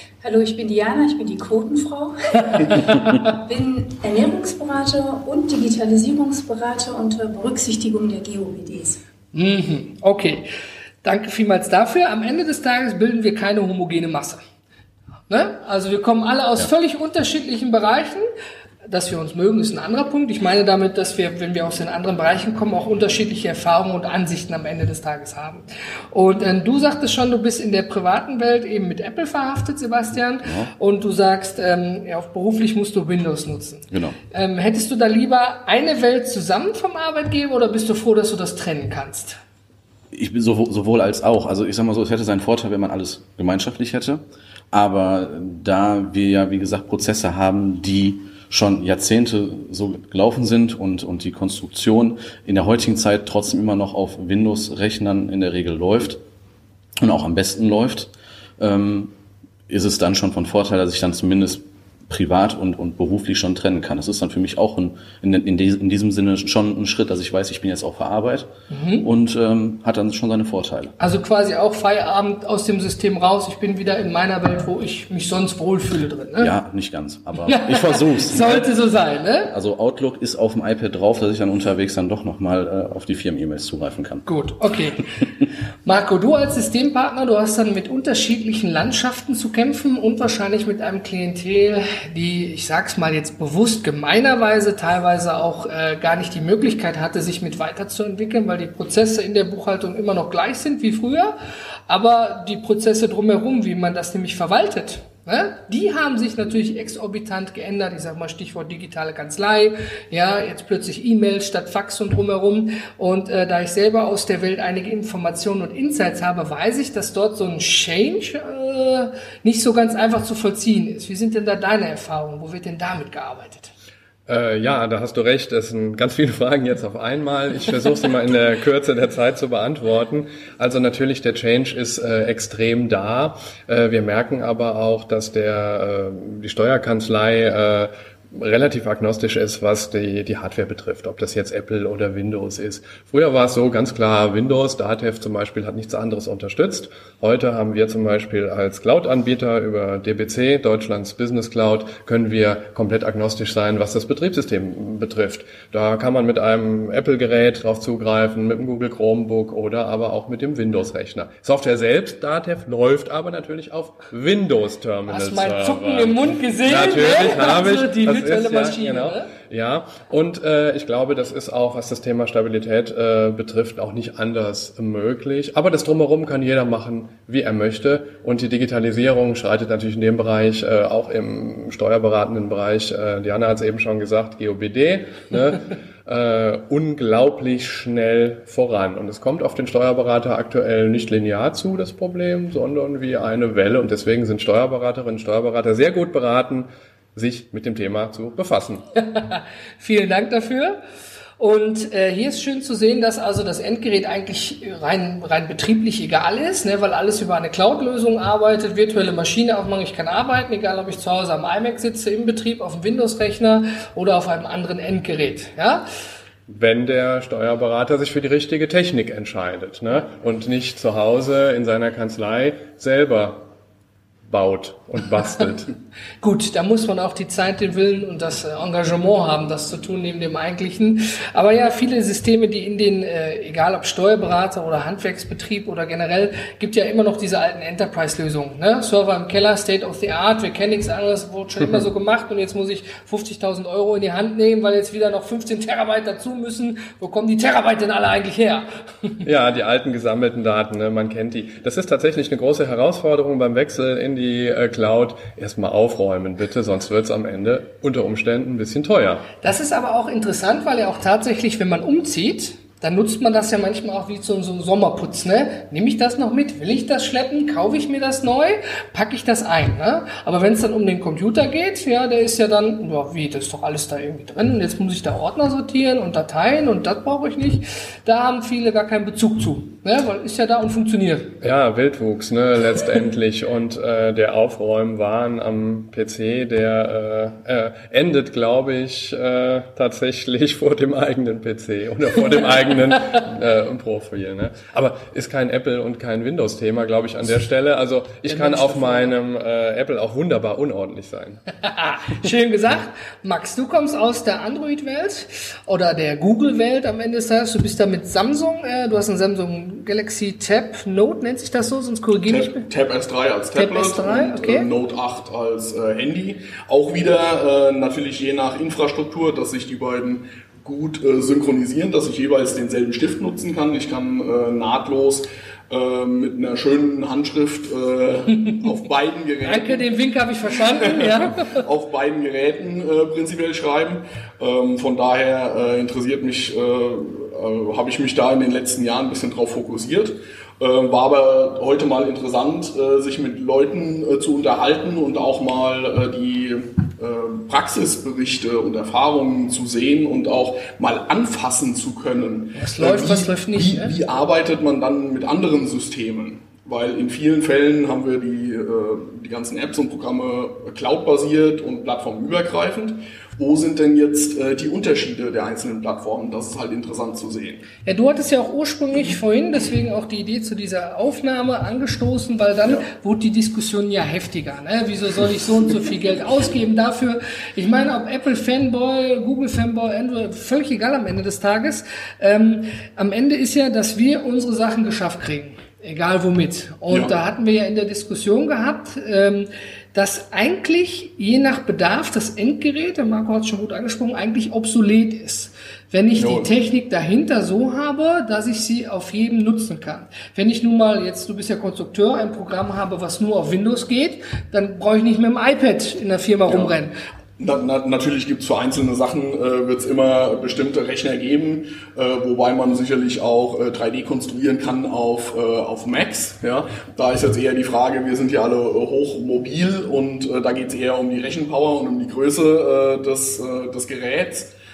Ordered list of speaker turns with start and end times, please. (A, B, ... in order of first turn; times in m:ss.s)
0:00.2-0:09.0 A
0:02.7-0:03.0 B
0:09.3-0:10.5 B
0:11.0-0:14.4 B
0:15.3-0:18.3 B
0:18.9-0:39.4 B
0:30.4-0:30.7 C
0:33.9-0:34.2 C
0:40.1-0:56.2 C
0:57.0-0:59.1 C
0:59.7-1:10.9 C
1:08.7-1:09.1 B
1:11.0-1:16.5 B
1:16.4-1:18.7 C
1:17.5-1:19.5 B
1:19.5-1:24.3 C
1:24.3-1:25.1 B
1:25.8-1:41.4 B
1:41.9-2:03.7 B
2:04.3-3:18.8 D
2:45.1-2:49.3 B
3:19.1-3:20.8 B
3:21.4-3:35.9 B
3:36.5-3:43.5 D
3:44.3-3:45.7 D
3:46.2-4:09.2 B
4:09.2-4:19.3 D
4:19.4-4:41.4 B
4:41.4-5:01.4 D
4:58.3-4:59.2 B
5:01.6-5:12.7 B
5:12.3-5:29.8 E
5:13.6-5:14.7 B
5:29.4-5:31.6 B
5:31.4-6:07.6 E
5:52.6-5:53.9 B
6:07.8-6:46.9 B
6:36.2-6:36.5 E
6:47.4-7:04.5 E